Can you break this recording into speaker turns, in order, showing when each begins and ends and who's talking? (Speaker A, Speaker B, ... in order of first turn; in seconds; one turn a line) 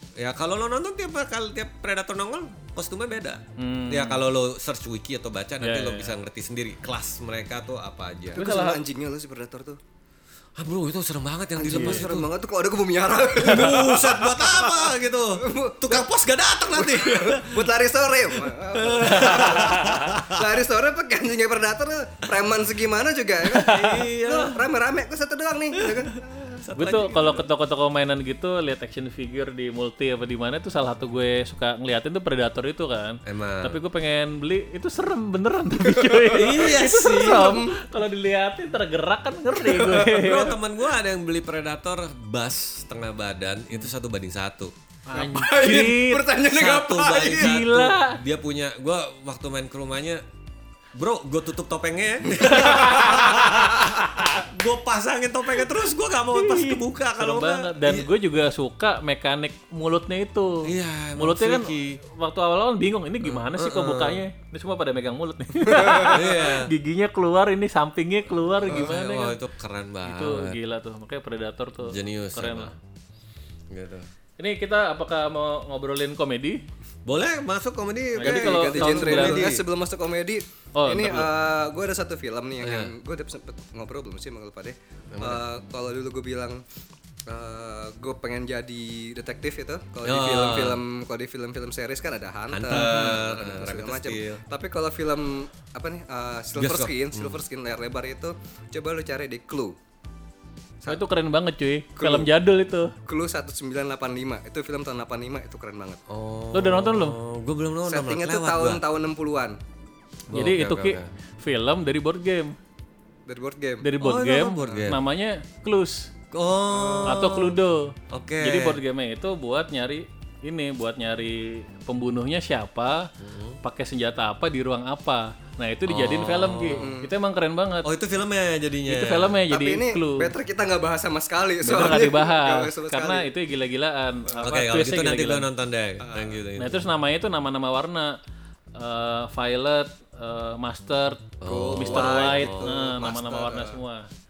Speaker A: 0.2-8.4
Speaker B: 3.6-4.2
Speaker B: 5.6-6.1
Speaker C: 8.3-9.8
Speaker B: 8.3-8.8
Speaker A: 10.6-12.3
Speaker C: 11.6-16.1
Speaker B: 11.7-12.1
Speaker A: 13.4-17.7
Speaker C: 16.7-26.6
Speaker A: 18.5-20.4
Speaker B: 19.2-20.1
Speaker A: 23.6-24.6
Speaker A: 25.8-27.5
Speaker B: 26.8-40.5
Speaker A: 33.2-33.8
Speaker C: 35.8-37.8
Speaker A: 36.3-37.6
Speaker C: 39.5-40.2
Speaker A: 40.1-44.7
Speaker B: 45.1-46.3
Speaker C: 45.1-47.6
Speaker A: 46.5-50.2
Speaker B: 47.1-48.2
Speaker A: 50.9-58.1
Speaker B: 52.4-53.5
Speaker B: 56.3-69.4
Speaker A: 60.6-62.0
Speaker A: 63.2-64.2
Speaker A: 65.8-66.7
Speaker A: 68.6-70.6
Speaker B: 70.0-72.7
Speaker A: 71.8-72.8
Speaker A: 73.7-74.1
Speaker B: 74.4-76.6
Speaker A: 77.0-79.6
Speaker B: 78.2-79.5
Speaker C: 78.2-86.6
Speaker B: 80.7-81.3
Speaker A: 82.6-82.9
Speaker A: 85.1-85.4
Speaker C: 87.3-99.8
Speaker A: 90.0-90.8
Speaker A: 92.5-94.4
Speaker B: 92.7-93.1
Speaker A: 96.5-97.4
Speaker B: 100.8-102.9
Speaker C: 102.0-102.3
Speaker C: 103.0-106.0
Speaker A: 106.1-108.8
Speaker B: 106.5-107.2
Speaker C: 107.8-109.6
Speaker A: 110.3-111.1
Speaker B: 110.3-112.5
Speaker C: 113.3-113.8
Speaker B: 113.8-116.1
Speaker A: 114.0-115.0
Speaker A: 116.3-117.6
Speaker C: 116.7-117.1
Speaker B: 117.0-123.1
Speaker A: 118.1-118.8
Speaker A: 123.2-123.6
Speaker B: 123.6-127.9
Speaker A: 125.9-126.9
Speaker C: 126.8-127.1
Speaker A: 127.8-129.4
Speaker B: 128.9-130.3
Speaker C: 129.5-133.3
Speaker B: 131.6-135.5
Speaker A: 134.3-136.9
Speaker C: 136.0-136.3
Speaker B: 136.6-138.2
Speaker B: 138.7-144.1
Speaker A: 141.4-142.8
Speaker C: 141.5-143.8